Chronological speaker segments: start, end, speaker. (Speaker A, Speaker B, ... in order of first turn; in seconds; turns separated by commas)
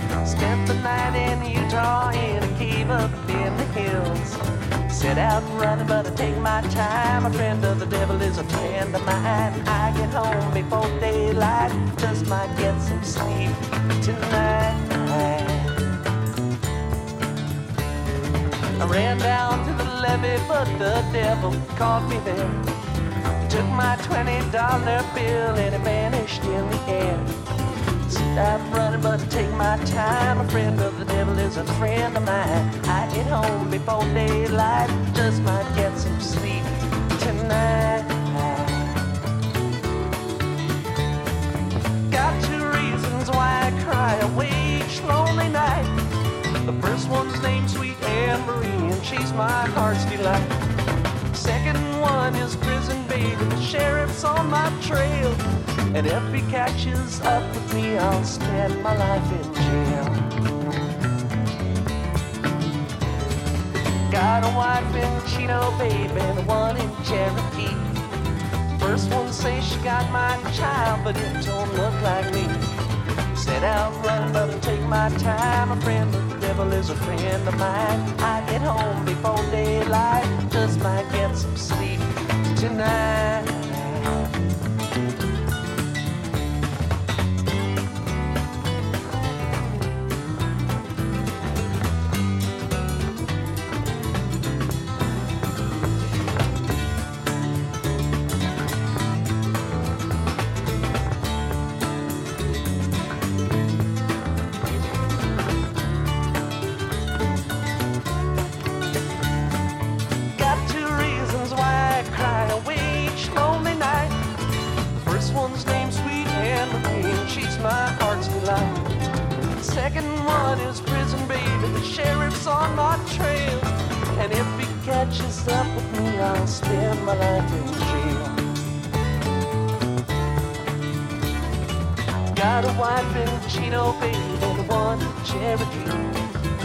Speaker A: 0.2-15.8, Speaker A: 18.8-22.7, Speaker A: 23.4-27.4, Speaker A: 28.0-39.1, Speaker A: 42.1-45.9, Speaker A: 46.6-50.6, Speaker A: 51.3-60.4, Speaker A: 64.1-67.9, Speaker A: 68.7-72.7, Speaker A: 73.3-84.2, Speaker A: 110.3-114.2, Speaker A: 114.9-119.0, Speaker A: 119.6-128.5, Speaker A: 132.3-136.1